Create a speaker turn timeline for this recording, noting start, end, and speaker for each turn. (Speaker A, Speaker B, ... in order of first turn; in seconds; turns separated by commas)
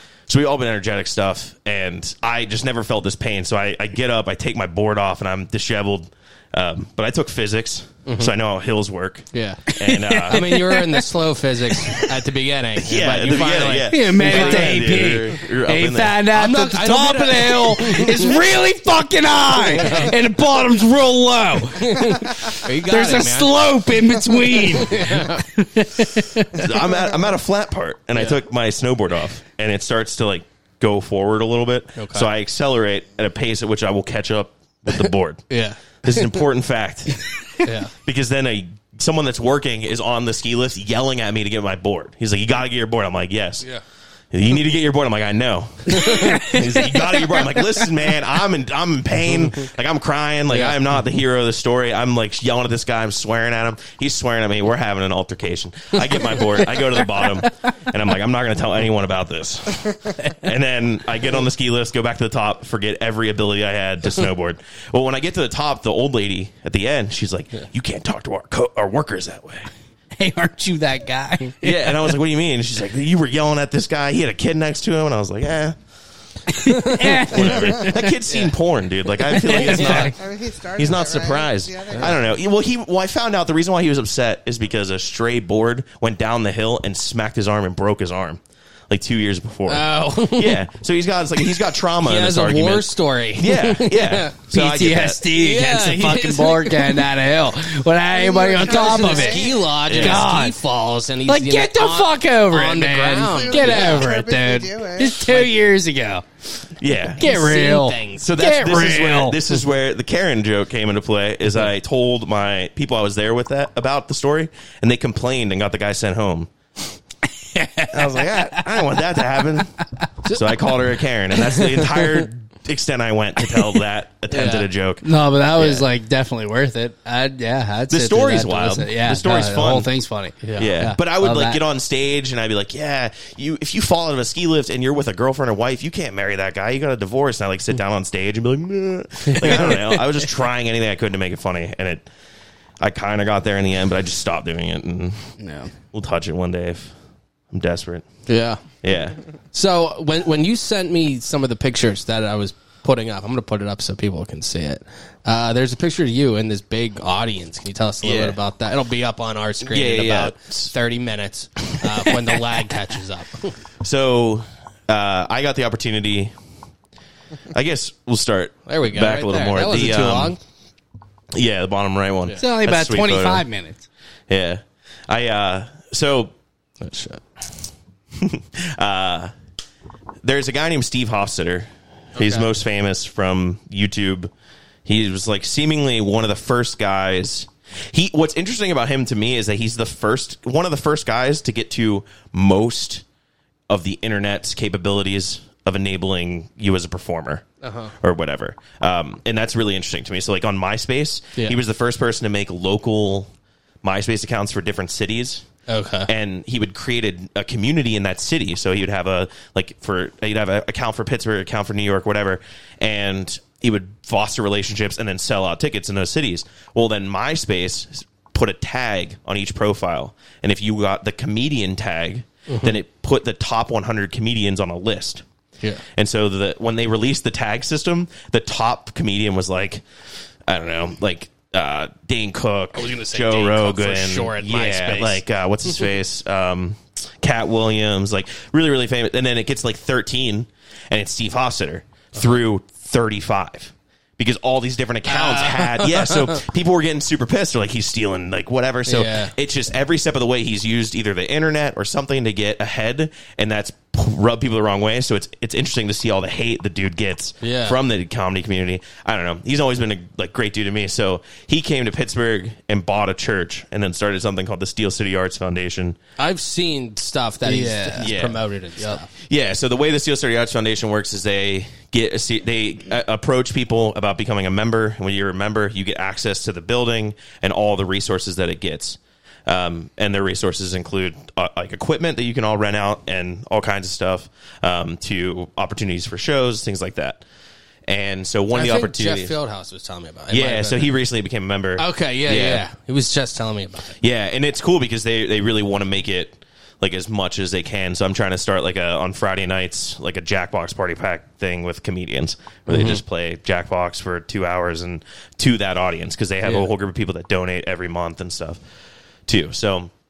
Speaker A: 0.3-10.5, Speaker B: 8.1-8.3, Speaker B: 9.3-9.7, Speaker C: 9.8-11.1, Speaker B: 10.3-15.4, Speaker A: 12.8-16.2, Speaker C: 13.9-26.6, Speaker B: 16.3-18.4, Speaker B: 19.6-20.1, Speaker B: 21.7-25.4, Speaker A: 26.6-35.5, Speaker B: 28.1-28.4, Speaker B: 32.0-32.3, Speaker B: 35.5-36.3, Speaker A: 36.0-37.3, Speaker B: 37.6-37.9, Speaker A: 38.0-43.7, Speaker A: 44.3-69.7, Speaker B: 45.9-46.6, Speaker C: 46.0-46.6, Speaker B: 50.5-50.8, Speaker C: 70.2-72.1, Speaker A: 71.6-75.8, Speaker C: 76.6-78.2, Speaker A: 77.3-80.2, Speaker C: 79.3-80.1, Speaker B: 79.6-80.1, Speaker D: 80.1-82.2, Speaker A: 80.8-95.2, Speaker B: 89.7-90.6, Speaker B: 92.0-94.5, Speaker C: 94.5-99.4, Speaker B: 95.3-97.1, Speaker B: 98.3-104.1, Speaker D: 98.5-99.1, Speaker A: 99.8-100.3, Speaker C: 99.9-100.6, Speaker C: 101.3-106.2, Speaker D: 103.3-105.3, Speaker A: 106.8-107.2, Speaker C: 107.2-109.4, Speaker B: 107.2-108.3, Speaker A: 108.2-116.5, Speaker C: 117.6-118.1, Speaker A: 117.9-119.8, Speaker A: 120.3-125.8, Speaker B: 124.3-124.7, Speaker C: 125.0-131.6, Speaker A: 127.9-129.9, Speaker B: 130.4-130.8, Speaker A: 130.6-142.1, Speaker B: 139.3-140.0, Speaker A: 142.8-145.2, Speaker C: 145.4-145.7, Speaker A: 145.9-146.9, Speaker A: 147.5-148.1, Speaker B: 148.3-148.6, Speaker A: 148.8-149.2, Speaker B: 149.5-163.6, Speaker A: 158.0-158.4, Speaker A: 159.6-160.7, Speaker A: 163.8-166.3, Speaker A: 167.5-170.4, Speaker B: 168.7-170.4, Speaker A: 171.3-173.4, Speaker C: 172.4-173.9, Speaker A: 174.3-176.3, Speaker B: 176.8-177.2, Speaker A: 178.2-179.3, Speaker A: 180.2-184.3, Speaker B: 182.2-182.5, Speaker A: 184.8-193.0, Speaker A: 193.7-197.5, Speaker B: 197.6-197.9, Speaker A: 198.0-203.3, Speaker A: 203.8-205.5, Speaker B: 205.7-206.1, Speaker A: 206.1-225.2, Speaker B: 222.5-222.8, Speaker A: 225.9-229.8, Speaker A: 230.5-266.0, Speaker B: 232.8-235.2, Speaker B: 242.1-242.4, Speaker B: 245.1-246.3, Speaker B: 248.9-249.3, Speaker B: 257.4-257.8, Speaker B: 266.2-269.1, Speaker C: 267.4-268.1, Speaker A: 268.0-268.4, Speaker A: 269.2-287.2, Speaker A: 287.9-289.4, Speaker B: 288.5-291.0, Speaker A: 290.3-292.6, Speaker B: 291.8-294.0, Speaker A: 294.0-308.6, Speaker B: 302.7-303.0, Speaker A: 309.3-309.9